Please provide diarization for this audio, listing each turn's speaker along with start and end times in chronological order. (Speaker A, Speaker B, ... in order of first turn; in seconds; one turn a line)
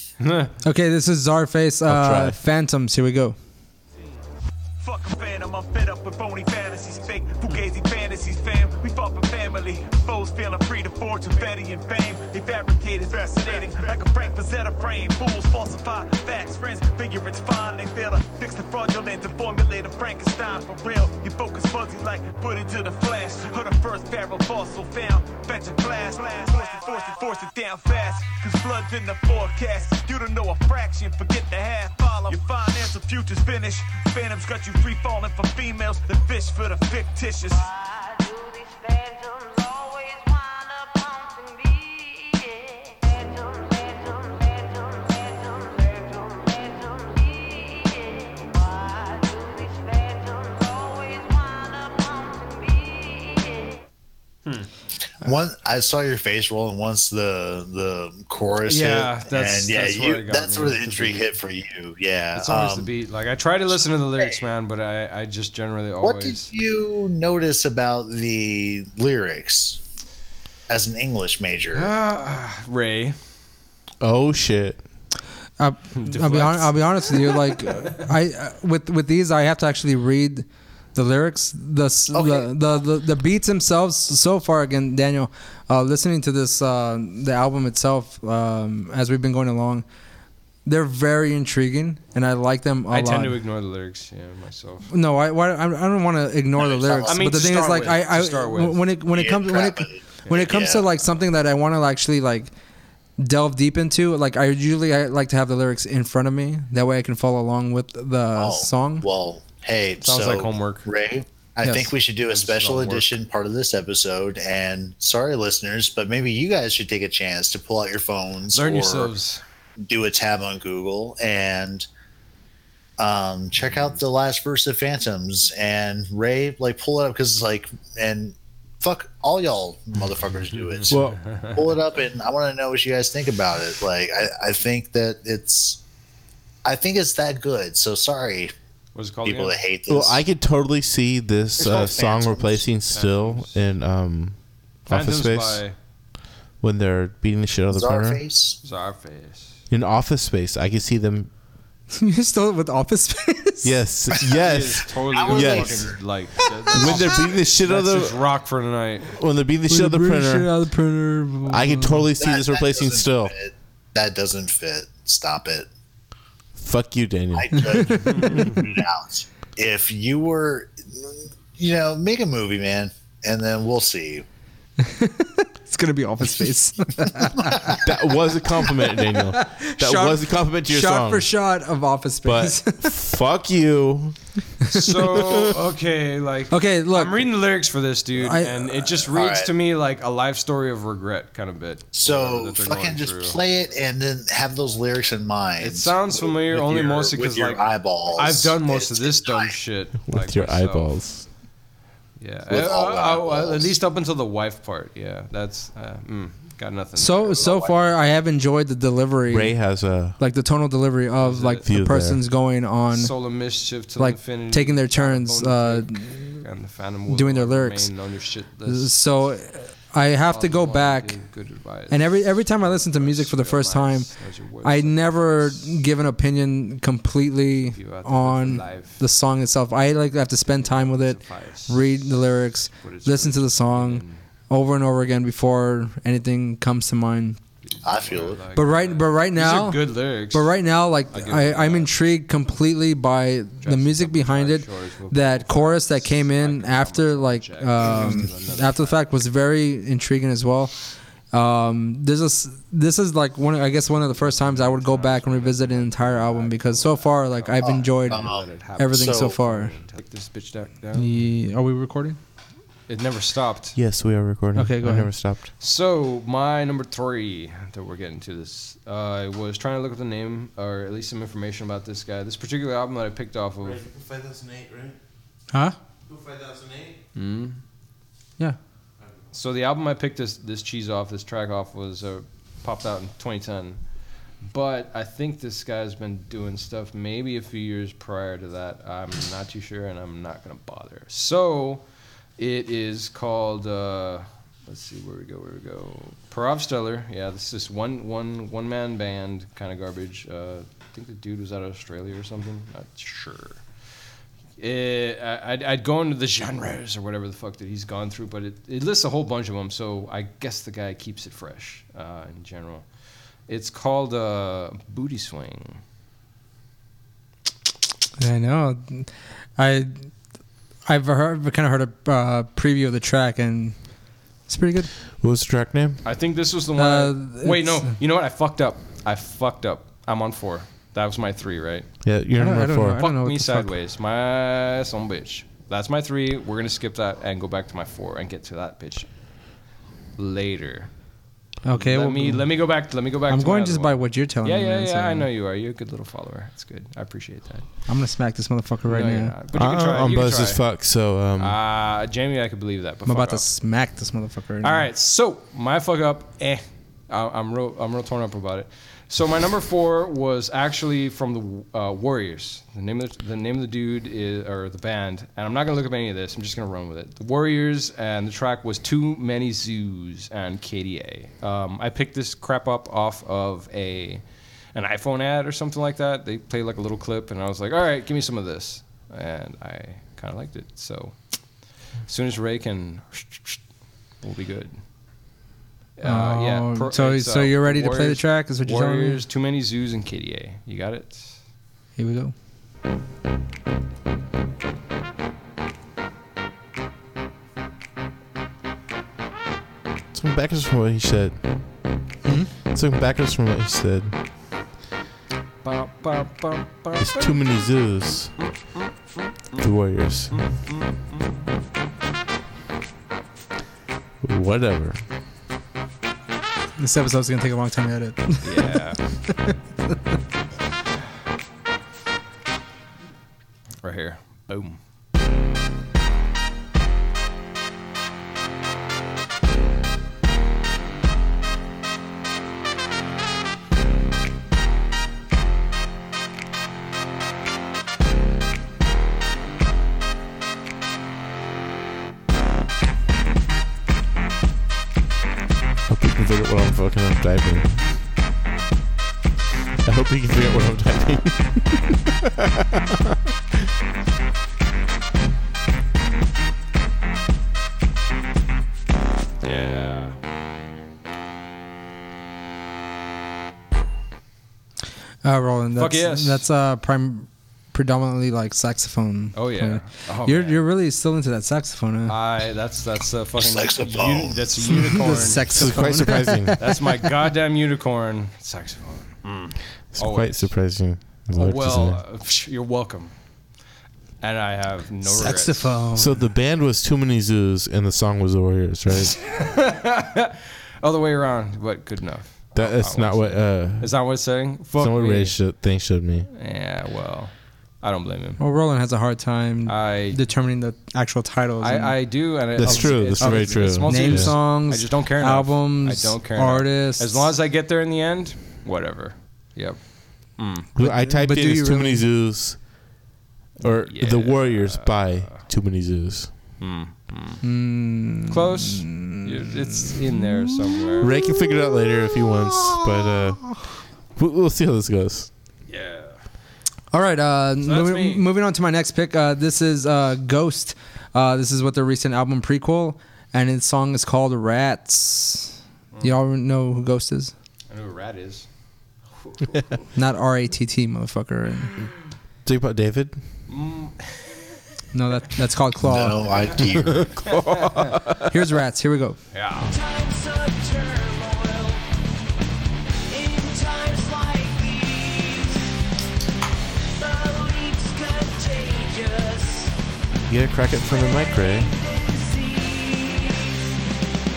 Speaker A: 0.2-0.5
Speaker B: 0.6-3.4
Speaker C: 1.9-2.4
Speaker D: 4.8-37.7
Speaker E: 55.2-62.9
Speaker A: 58.7-61.3
Speaker A: 62.3-66.5
Speaker E: 63.7-64.4
Speaker E: 66.0-69.8
Speaker E: 70.7-71.9
Speaker A: 71.7-73.2
Speaker C: 74.0-74.8
Speaker B: 75.6-89.8
Speaker A: 76.0-77.3
Speaker E: 82.1-82.5
Speaker B: 90.7-93.4
Speaker A: 92.9-94.9
Speaker B: 94.9-102.5
Speaker E: 96.6-97.5
Speaker A: 97.1-98.8
Speaker E: 99.1-100.9
Speaker B: 103.2-109.0
Speaker E: 108.3-119.1
Speaker A: 110.0-110.9
Speaker B: 111.6-111.9
Speaker A: 112.3-113.2
Speaker A: 118.5-119.4
Speaker E: 119.8-121.9
Speaker E: 123.0-135.8
Speaker A: 123.7-124.0
Speaker A: 130.5-131.6
Speaker C: 130.9-131.2
Speaker E: 136.6-138.5
Speaker A: 138.9-139.6
Speaker E: 139.2-140.2
Speaker C: 139.9-145.6
Speaker E: 141.6-142.7
Speaker A: 142.9-143.6
Speaker A: 144.9-145.7
Speaker C: 146.6-148.2
Speaker E: 147.7-148.6
Speaker A: 148.6-149.6
Speaker C: 149.7-151.3
Speaker B: 151.9-153.7
Speaker C: 153.6-156.1
Speaker A: 154.3-159.1
Speaker E: 155.1-156.0
Speaker C: 156.7-158.3
Speaker E: 156.7-157.3
Speaker C: 159.1-160.5
Speaker B: 159.7-162.1
Speaker C: 161.5-163.3
Speaker E: 162.2-165.7
Speaker C: 166.6-167.8
Speaker E: 167.3-174.2
Speaker A: 168.1-168.6
Speaker B: 174.8-177.8
Speaker C: 177.8-181.3
Speaker B: 179.3-182.9
Speaker C: 182.2-184.2
Speaker A: 184.7-193.4
Speaker C: 185.0-185.5
Speaker B: 186.5-187.3
Speaker B: 188.2-188.6
Speaker E: 188.9-189.5
Speaker E: 191.9-199.6
Speaker A: 195.6-200.9
Speaker C: 200.1-201.3
Speaker A: 202.2-207.5
Speaker E: 202.5-203.8
Speaker B: 207.0-213.2
Speaker E: 207.2-207.7
Speaker C: 209.3-210.2
Speaker A: 211.2-211.6
Speaker C: 211.6-212.2
Speaker A: 212.9-219.0
Speaker B: 214.0-216.4
Speaker B: 217.1-217.9
Speaker B: 218.7-221.1
Speaker A: 220.2-225.8
Speaker B: 221.9-237.4
Speaker A: 227.7-229.0
Speaker A: 230.5-231.8
Speaker A: 232.8-234.2
Speaker A: 237.6-240.6
Speaker E: 237.8-238.4
Speaker B: 238.5-250.7
Speaker A: 241.1-241.9
Speaker A: 243.6-249.0
Speaker E: 248.0-248.2
Speaker B: 251.3-259.7
Speaker A: 254.2-261.1
Speaker E: 257.6-259.4
Speaker B: 260.9-262.2
Speaker A: 262.9-263.8
Speaker C: 263.7-265.5
Speaker B: 264.5-265.1
Speaker A: 265.6-273.8
Speaker C: 273.6-275.0
Speaker C: 276.1-277.0
Speaker A: 277.1-277.6
Speaker A: 279.3-283.9
Speaker A: 284.4-291.8
Speaker A: 292.4-303.6
Speaker A: 304.6-312.9
Speaker A: 313.5-315.8
Speaker B: 318.2-320.0
Speaker B: 320.9-323.8
Speaker B: 324.5-324.9
Speaker C: 325.2-326.0
Speaker A: 326.0-331.9
Speaker B: 326.8-327.9
Speaker C: 332.0-333.0
Speaker B: 332.4-333.7
Speaker A: 332.9-339.1
Speaker A: 340.2-340.9
Speaker B: 341.6-342.5
Speaker A: 341.7-347.7
Speaker B: 343.3-345.3
Speaker B: 347.9-349.3
Speaker A: 348.9-350.6
Speaker C: 349.5-351.6
Speaker A: 351.4-353.4
Speaker B: 353.1-354.9
Speaker A: 354.6-383.6
Speaker A: 384.2-384.8
Speaker A: 386.0-391.4
Speaker B: 386.0-389.2
Speaker B: 391.9-392.3
Speaker C: 400.1-401.4
Speaker B: 402.2-402.5
Speaker C: 402.6-404.1
Speaker A: 405.6-407.9
Speaker C: 407.0-408.4
Speaker C: 409.6-410.4
Speaker A: 410.3-411.4
Speaker C: 414.2-415.0
Speaker B: 416.8-418.8
Speaker A: 418.4-419.2
Speaker A: 423.8-424.8
Speaker C: 445.9-447.7
Speaker C: 449.8-453.6
Speaker A: 459.4-460.1
Speaker B: 465.2-472.1
Speaker A: 465.8-466.4
Speaker A: 469.3-470.6
Speaker A: 472.1-475.6
Speaker E: 473.4-474.5
Speaker B: 474.7-476.7
Speaker C: 475.5-476.6
Speaker A: 476.6-480.6
Speaker C: 479.9-482.0
Speaker A: 481.3-483.1
Speaker A: 484.2-485.8
Speaker B: 485.0-486.2
Speaker C: 485.9-489.2
Speaker A: 489.2-495.5
Speaker C: 492.5-494.1
Speaker C: 494.7-496.3
Speaker A: 496.3-498.4
Speaker B: 498.4-502.0
Speaker A: 499.7-500.2
Speaker A: 501.6-510.7
Speaker C: 502.6-504.4
Speaker B: 502.6-507.3
Speaker C: 510.7-512.8
Speaker B: 510.8-512.0
Speaker C: 513.6-516.3
Speaker A: 513.9-515.4
Speaker A: 516.6-517.4
Speaker B: 517.4-520.2
Speaker A: 518.3-521.1
Speaker C: 521.0-525.3
Speaker A: 525.7-526.2
Speaker B: 526.9-537.3
Speaker A: 527.6-528.2
Speaker A: 537.7-538.5
Speaker A: 539.3-539.6
Speaker B: 539.9-541.7
Speaker C: 542.4-543.2
Speaker A: 543.5-544.4
Speaker B: 544.9-546.2
Speaker E: 545.8-547.1
Speaker C: 546.8-548.2
Speaker A: 547.3-547.9
Speaker B: 548.3-549.2
Speaker A: 549.3-549.7
Speaker F: 549.8-551.8
Speaker F: 553.1-555.6
Speaker F: 557.0-559.7
Speaker C: 560.3-561.7
Speaker F: 561.7-563.5